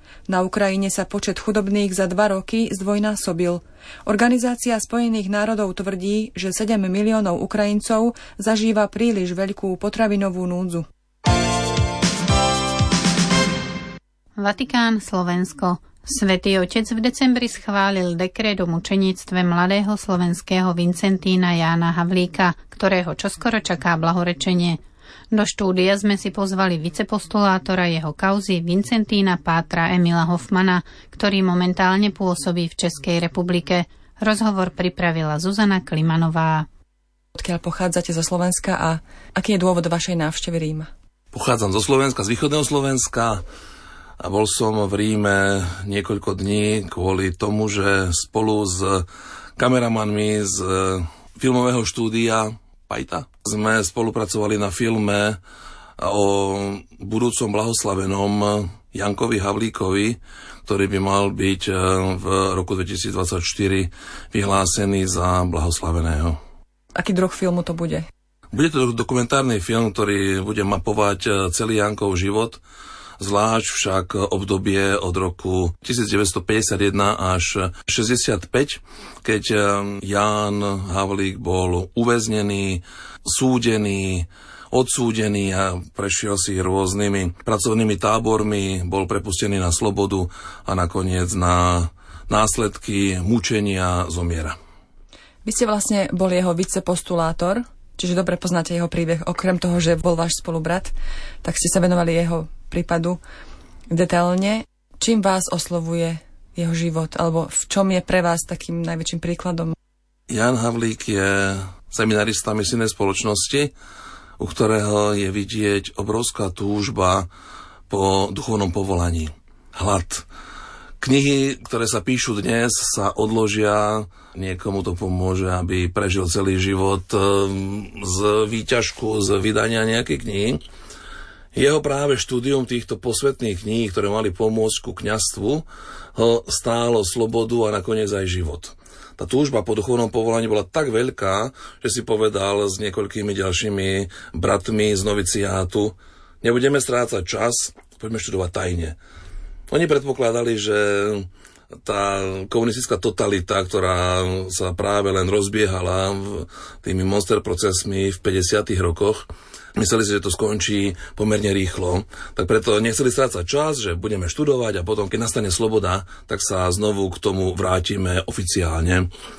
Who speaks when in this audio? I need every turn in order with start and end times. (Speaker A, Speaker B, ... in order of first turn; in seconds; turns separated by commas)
Speaker A: 0.3-10.8, Speaker B: 14.4-24.8, Speaker B: 25.3-36.7, Speaker A: 37.3-40.9, Speaker C: 41.3-43.4, Speaker C: 44.2-49.0, Speaker C: 49.6-55.4, Speaker C: 56.0-66.4, Speaker A: 67.0-68.0, Speaker C: 68.5-72.6, Speaker C: 73.2-94.5, Speaker A: 95.4-103.2, Speaker A: 103.9-109.7, Speaker C: 110.3-113.7, Speaker C: 114.4-117.3, Speaker C: 117.9-120.3, Speaker C: 121.0-130.6, Speaker C: 131.5-135.6, Speaker C: 136.2-149.0, Speaker C: 149.7-151.3, Speaker C: 151.8-169.1